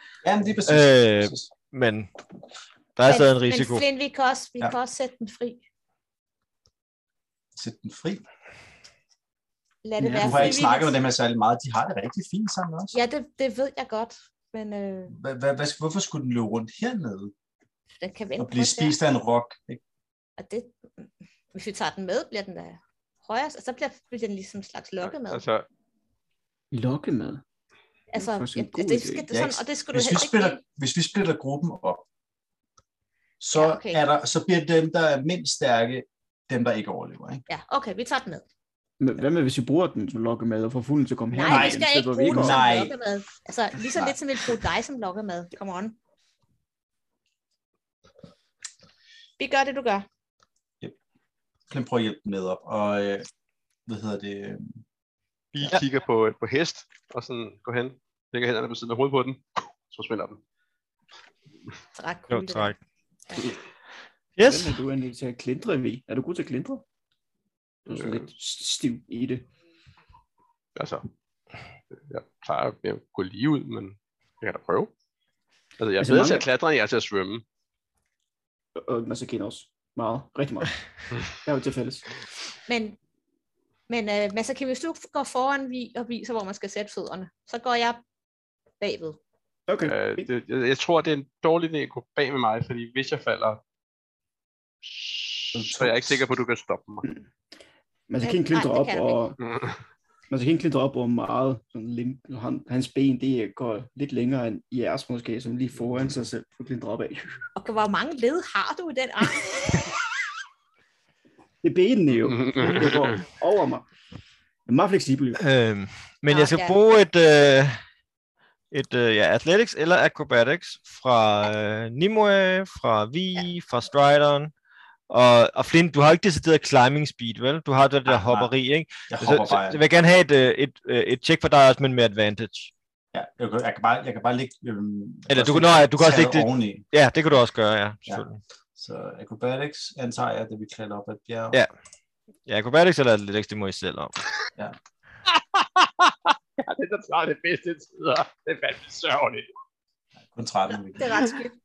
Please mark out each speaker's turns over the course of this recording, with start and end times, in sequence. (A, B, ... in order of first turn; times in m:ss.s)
0:00.2-0:01.4 A
0:00.6-0:02.1 B
0:03.0-0:03.8 B
0:03.0-0:05.6 C
0:07.6-0:08.2 A
0:09.8-0:11.0 C
0:10.0-0:10.6 D
0:10.1-0:13.0 A
0:12.9-0:15.2 C
0:15.1-0:17.3 A
0:18.0-0:19.0 C
0:18.4-0:19.8 A
0:20.4-0:25.4 C
0:25.0-0:25.6 E
0:26.7-0:27.4 D
0:28.1-0:30.6 C
0:28.2-0:29.2 D
0:29.3-0:32.0 A
0:33.4-0:37.4 A
0:33.5-0:34.0 C
0:37.5-0:38.4 C
0:39.0-0:42.7 D
0:41.3-0:46.0 C
0:41.5-0:42.9 A
0:49.4-0:50.0 C
0:51.7-0:53.3 A
0:53.9-0:54.8 A
0:55.5-1:00.4 E
1:01.9-1:02.7 C
1:02.3-1:02.8 B
1:04.4-1:04.8 B
1:04.4-1:06.8 D
1:07.8-1:09.4 D
1:07.9-1:08.3 E
1:10.8-1:11.0 E
1:12.0-1:14.9 E
1:15.8-1:17.4 E
1:16.0-1:16.4 D
1:18.8-1:20.8 D
1:21.3-1:22.0 D
1:22.7-1:23.0 C
1:23.9-1:28.0 C
1:28.8-1:29.2 C
1:29.7-1:30.3 D
1:29.8-1:33.6 E
1:34.8-1:37.1 E
1:35.5-1:36.2 A
1:38.1-1:39.4 D
1:38.2-1:39.2 C
1:39.4-1:39.8 E
1:40.3-1:47.4 D
1:47.6-1:49.8 C
1:51.6-1:53.8 D
1:52.2-1:53.2 E
1:54.6-1:55.4 D
1:55.4-1:57.8 B
1:56.3-1:56.8 C
1:58.7-2:04.5 B
2:05.1-2:12.7 B
2:08.1-2:08.5 A
2:09.1-2:09.8 A
2:13.1-2:16.8 A
2:15.3-2:18.4 B
2:18.8-2:21.6 A
2:22.5-2:24.1 B
2:25.3-2:29.5 E
2:30.3-2:31.1 A
2:30.9-2:31.6 C